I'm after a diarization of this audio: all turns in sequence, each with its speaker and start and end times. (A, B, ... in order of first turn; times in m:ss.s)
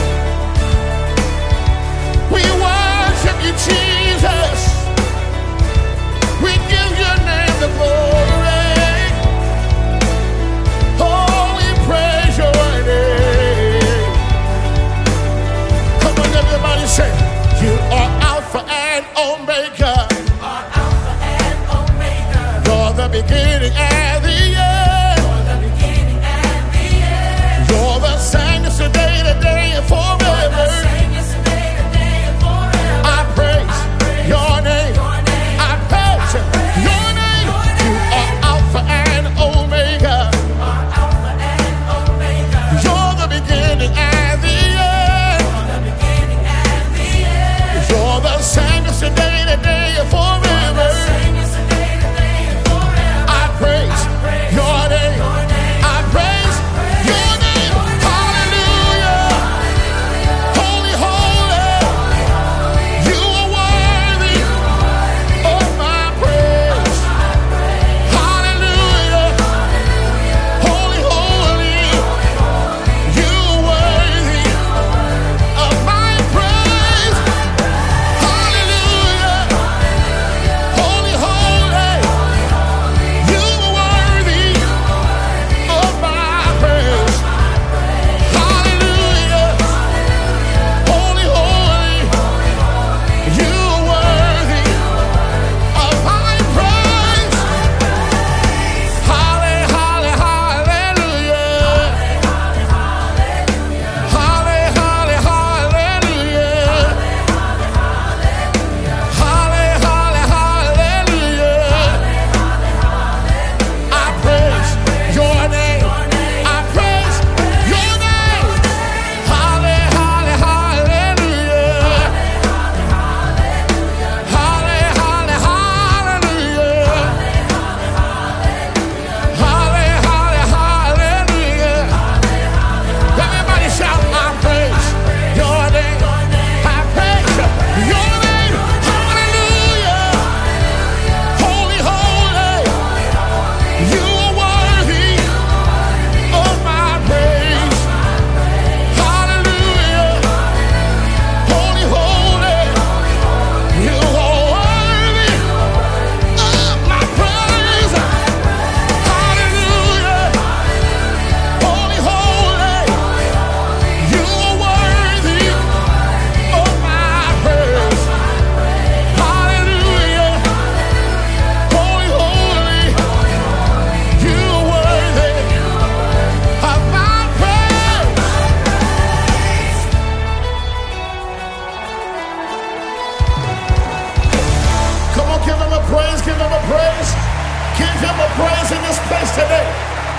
0:02.2-0:05.0 A
0:06.4-0:09.4 A
0:10.9-0:14.4 A
0:16.0-0:20.5 A
0:21.3-1:07.2 A
1:07.8-1:09.8 A
1:10.4-1:19.9 A
1:20.4-1:30.0 A
1:30.6-1:32.5 A
1:33.0-1:37.6 A
1:38.8-1:42.3 A
1:43.9-1:47.3 A
1:49.0-1:52.5 A
1:53.7-2:02.5 A
2:04.0-2:07.6 A
2:09.2-2:12.3 A
2:12.9-2:23.1 A
2:23.6-2:28.1 A
2:28.7-2:30.6 A
2:31.3-2:40.7 A
2:41.4-2:50.8 A
2:51.5-2:53.2 A
2:53.9-2:58.4 A
3:05.1-3:09.9 A